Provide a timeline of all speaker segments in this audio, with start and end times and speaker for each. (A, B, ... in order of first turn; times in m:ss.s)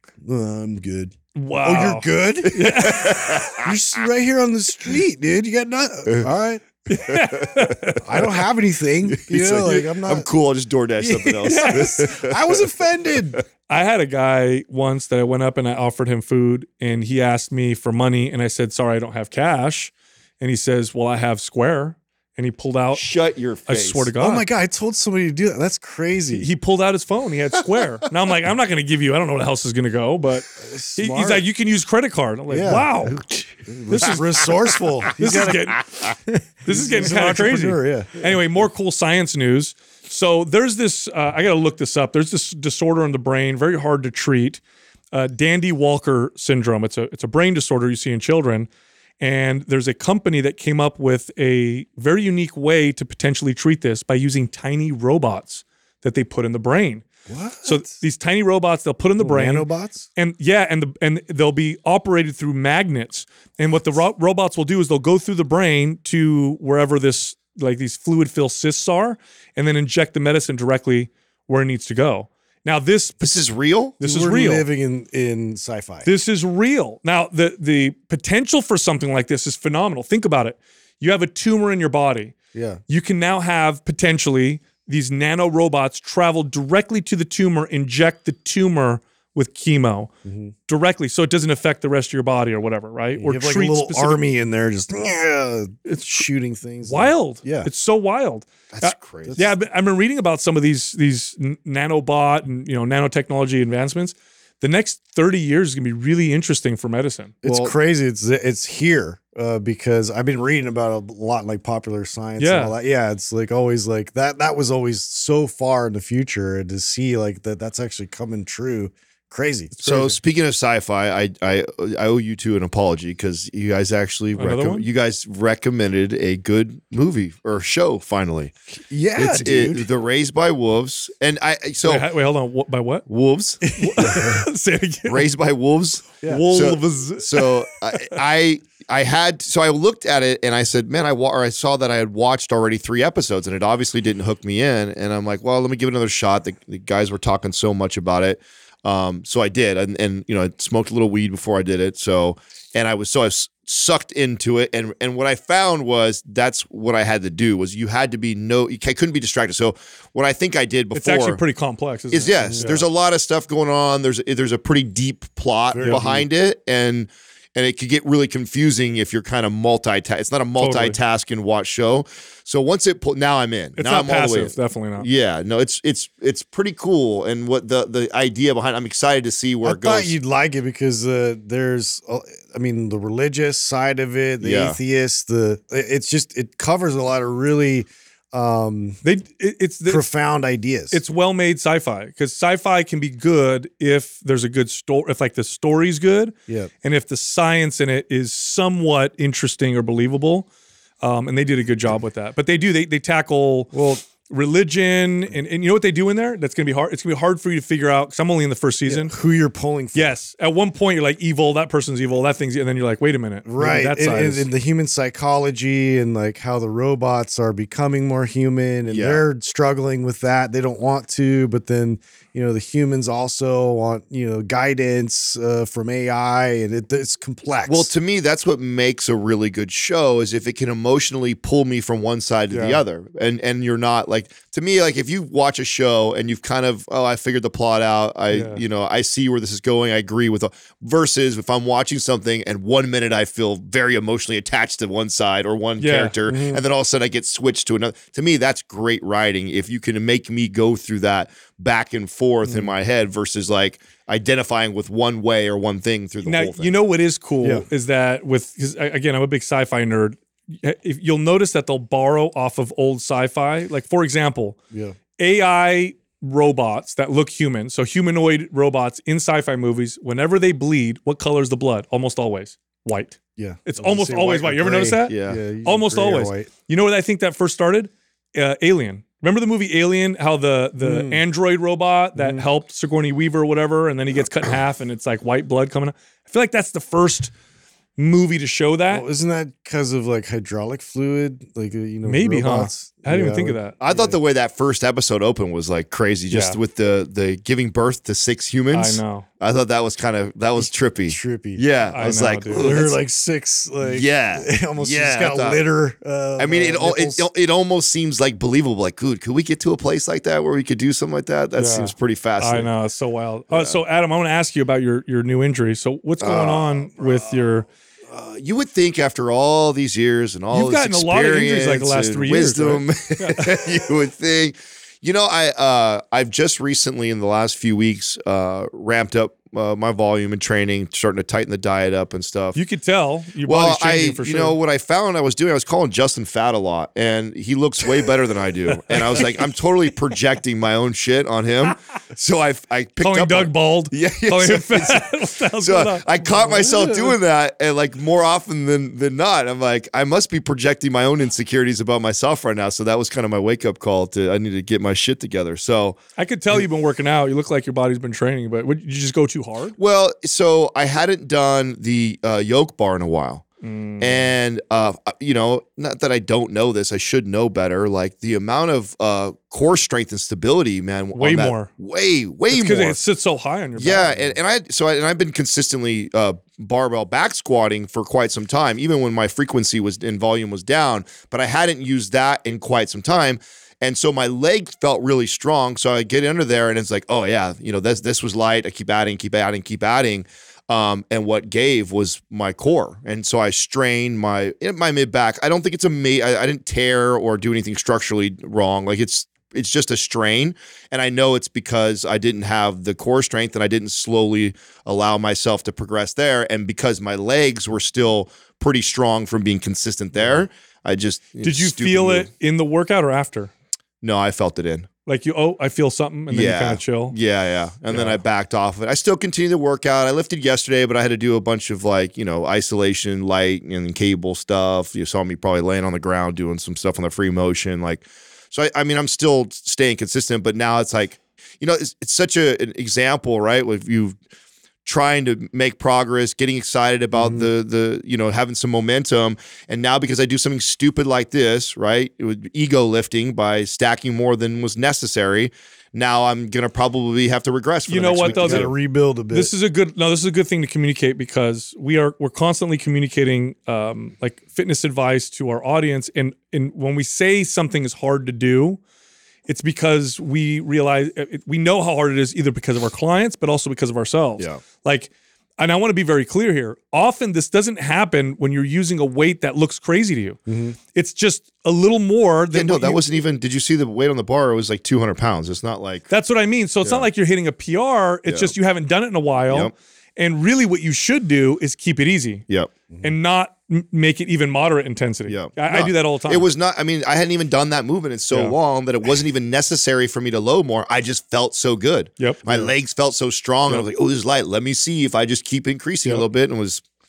0:00.2-0:02.9 A
0:01.4-0:03.6 B
0:02.5-0:03.7 C
0:03.6-0:06.6 A
0:06.9-0:08.1 B
0:07.1-0:07.9 C
0:08.0-0:10.3 A
0:09.1-0:12.6 C
0:11.0-0:13.4 A
0:11.4-0:12.0 B
0:13.7-0:23.0 B
0:23.0-0:24.1 C
0:23.7-0:24.5 B
0:24.2-0:26.5 A
0:26.4-0:33.2 B
0:30.6-0:31.5 A
0:32.5-0:35.8 A
0:33.2-0:34.0 C
0:33.9-0:34.4 B
0:35.2-0:36.0 B
0:35.3-0:36.1 C
0:36.6-0:44.6 B
0:36.7-0:38.1 A
0:45.1-0:48.7 B
0:49.2-0:57.1 B
0:57.3-0:58.0 A
0:57.6-1:13.4 B
0:59.2-1:00.1 A
1:13.2-1:14.0 C
1:14.0-1:14.6 B
1:14.0-1:16.1 A
1:16.0-1:22.3 B
1:22.5-1:22.8 A
1:22.9-1:30.1 B
1:30.2-1:30.5 A
1:30.7-1:34.2 B
1:33.2-1:37.7 A
1:35.9-1:36.3 B
1:36.8-1:47.7 B
1:38.7-1:39.4 C
1:39.2-1:39.5 A
1:47.4-2:00.2 A
1:52.4-1:52.8 B
1:59.8-2:08.5 C
2:04.4-2:04.9 B
2:08.9-2:09.9 A
2:09.2-2:12.1 C
2:11.8-2:13.1 B
2:13.1-2:13.6 C
2:13.7-2:14.4 A
2:13.8-2:15.2 B
2:15.1-2:41.4 C
2:16.2-2:18.2 B
2:40.9-2:42.9 B
2:42.1-3:00.2 C
2:45.7-2:46.3 A
2:50.6-2:51.0 B
2:53.8-2:55.1 B
2:59.6-3:09.0 A
3:04.4-3:04.8 C
3:09.0-3:10.1 B
3:09.9-3:11.0 A
3:10.9-3:20.5 B
3:21.0-3:29.1 B
3:23.7-3:24.0 A
3:28.9-3:30.2 A
3:30.0-3:34.5 B
3:33.4-3:47.9 A
3:38.9-3:39.2 C
3:47.7-4:16.7 C
3:52.5-3:52.8 B
3:58.3-3:58.6 B
4:05.8-4:06.1 B
4:06.3-4:06.6 A
4:16.2-4:24.6 B
4:17.4-4:17.7 A
4:24.7-4:25.0 A
4:25.2-4:47.3 B
4:33.4-4:36.5 A
4:35.1-4:35.4 C
4:40.8-4:41.2 A
4:42.2-4:42.5 A
4:48.0-4:49.1 B
4:48.9-4:54.2 A
4:52.0-4:53.8 B
4:53.8-5:03.0 C
4:56.3-4:56.6 B
4:58.7-4:59.3 B
5:00.6-5:07.3 A
5:01.9-5:02.9 B
5:03.8-5:05.7 C
5:06.4-5:12.7 C
5:11.6-5:17.7 B
5:13.5-5:13.8 C
5:16.2-5:17.6 C
5:18.1-5:32.6 C
5:20.5-5:23.6 B
5:32.6-5:34.6 B
5:33.4-5:56.0 C
5:38.7-5:39.3 B
5:43.0-5:47.2 B
5:56.2-5:59.8 B
5:59.8-6:03.4 C
6:03.6-6:04.3 B
6:04.0-6:13.0 C
6:11.1-6:11.7 B
6:12.5-6:14.2 B
6:13.8-6:52.3 C
6:51.4-6:53.5 B
6:54.0-6:54.9 C
6:55.1-6:57.2 B
6:56.3-7:14.2 C
6:57.9-6:58.2 B
7:14.8-7:28.7 C
7:17.2-7:17.5 A
7:27.9-7:28.7 B
7:28.2-7:29.5 A
7:29.3-7:38.8 B
7:39.5-7:50.4 B
7:50.5-7:50.8 A
7:50.9-7:53.0 B
7:52.5-7:56.1 C
7:56.1-8:02.4 B
7:58.3-7:58.5 C
8:03.0-8:06.5 B
8:05.3-8:16.9 C
8:08.3-8:08.6 B
8:12.2-8:12.7 B